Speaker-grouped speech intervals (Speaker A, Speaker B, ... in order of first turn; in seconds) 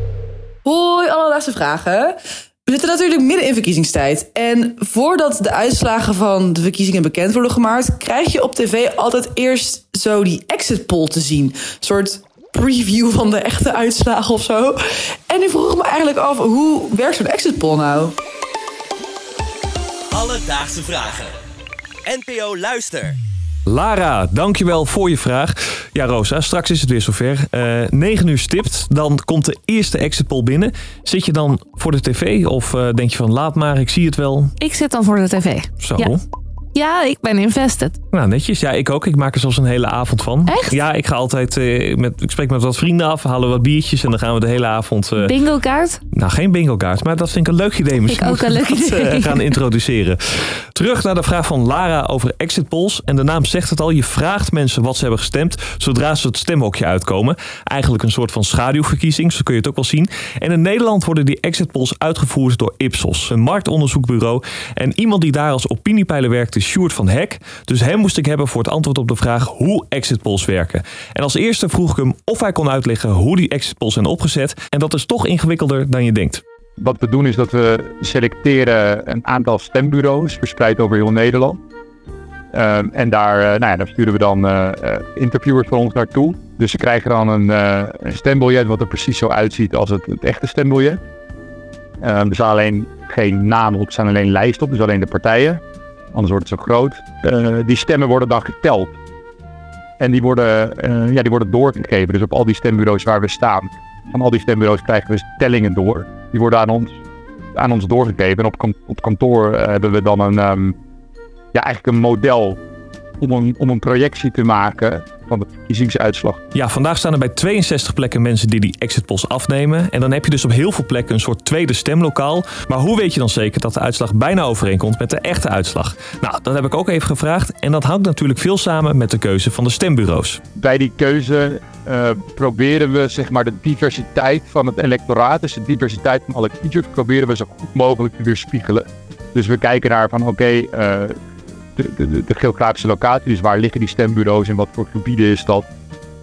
Speaker A: 0.6-2.1, 2.7-14.8, 15.3-18.1
Speaker B: 20.1-21.3, 22.1-23.1
Speaker C: 23.6-34.5, 35.8-36.2, 38.1-45.3, 46.1-76.4, 116.5-130.4
Speaker D: 34.6-36.1, 36.7-38.0, 40.5-40.8, 45.2-46.0, 48.0-49.6
Speaker E: 76.8-81.6, 82.5-91.0, 92.0-95.6, 96.1-99.0, 100.0-107.0, 107.5-110.7, 111.5-112.6, 113.2-116.4, 130.6-141.1, 141.8-145.7